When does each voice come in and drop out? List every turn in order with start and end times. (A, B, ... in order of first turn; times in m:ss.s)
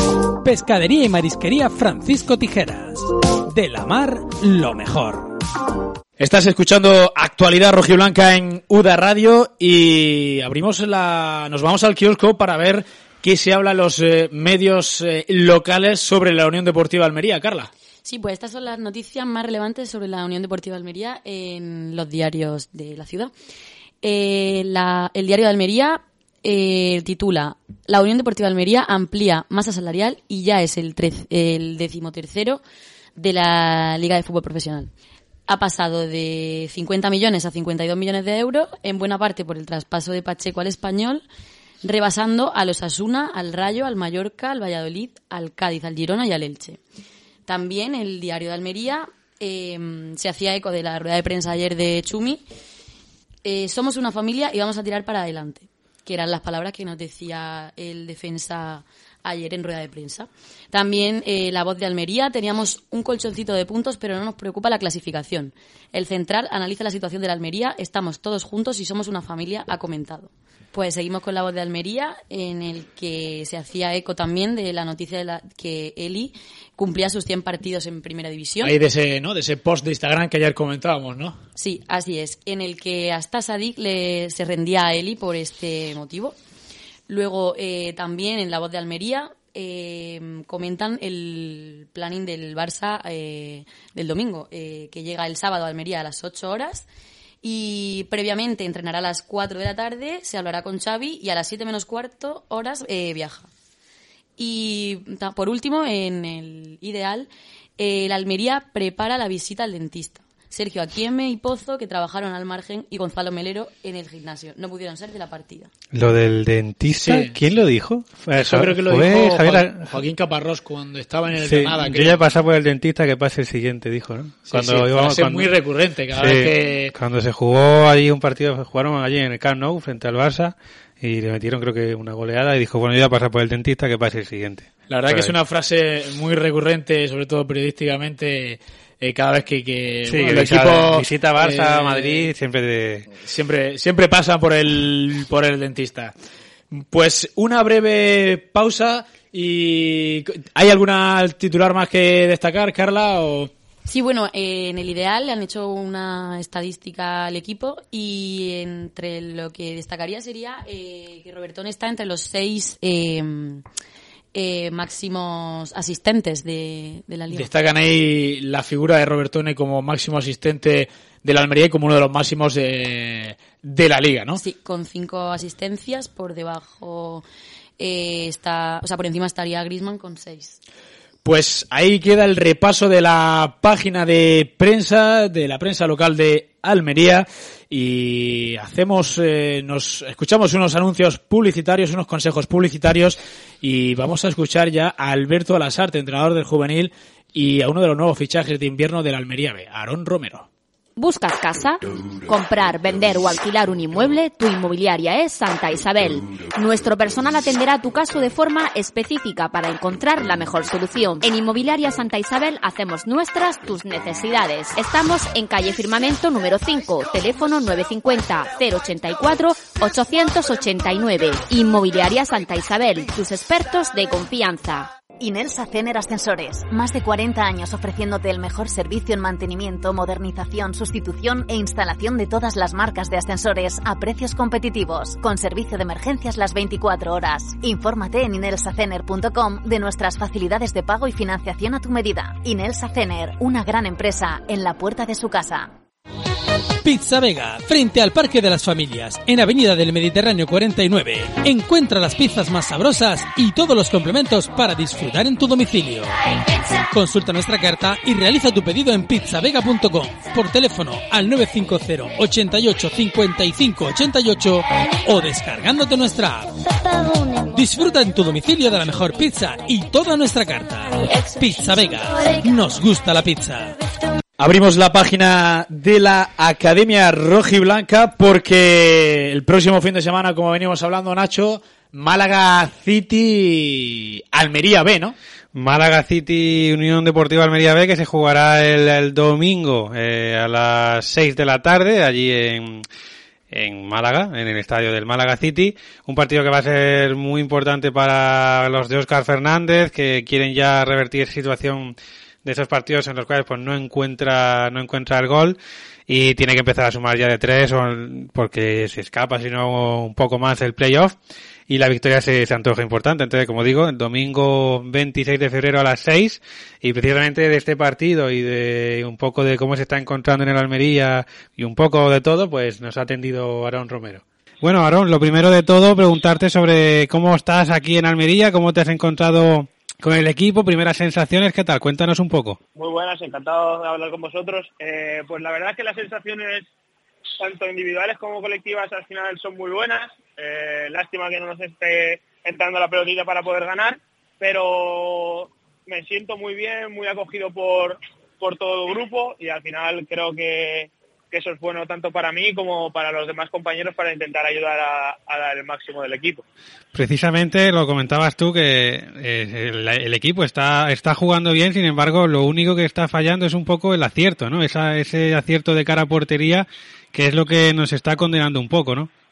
0:00.4-0:05.3 A
0:06.2-0:17.7 B
0:18.0-0:23.3 C
0:24.0-0:32.6 C
0:33.2-0:34.9 C
0:35.5-0:41.2 C
0:41.8-0:46.8 C
0:47.4-0:52.4 C
0:53.4-1:18.7 C
1:18.6-1:21.4 B
1:21.6-1:26.4 C
1:27.1-1:36.8 C
1:37.4-1:43.5 C
1:44.4-1:55.7 C
1:55.9-1:59.8 D
1:56.9-1:57.4 B
1:58.4-2:02.2 B
2:01.4-2:05.5 D
2:04.5-2:06.9 B
2:06.1-2:15.3 D
2:14.9-2:22.3 B
2:20.0-2:23.1 D
2:23.2-2:26.1 B
2:26.7-2:33.5 B
2:33.8-2:43.6 C
2:44.3-2:47.5 C
2:47.3-2:54.4 B
2:54.4-2:57.2 C
2:57.8-3:00.6 C
3:01.2-3:20.5 B
3:21.0-3:44.9 E
3:45.2-4:05.7 F
4:06.8-4:16.1 A
4:16.9-4:26.6 A
4:27.5-4:33.8 A
4:34.4-4:45.2 B
4:45.5-4:52.8 D
4:53.5-5:05.6 D
5:06.1-5:11.1 D
5:11.7-5:32.6 D
5:32.8-5:36.7 G
5:37.4-5:56.4 G
5:56.9-6:09.1 D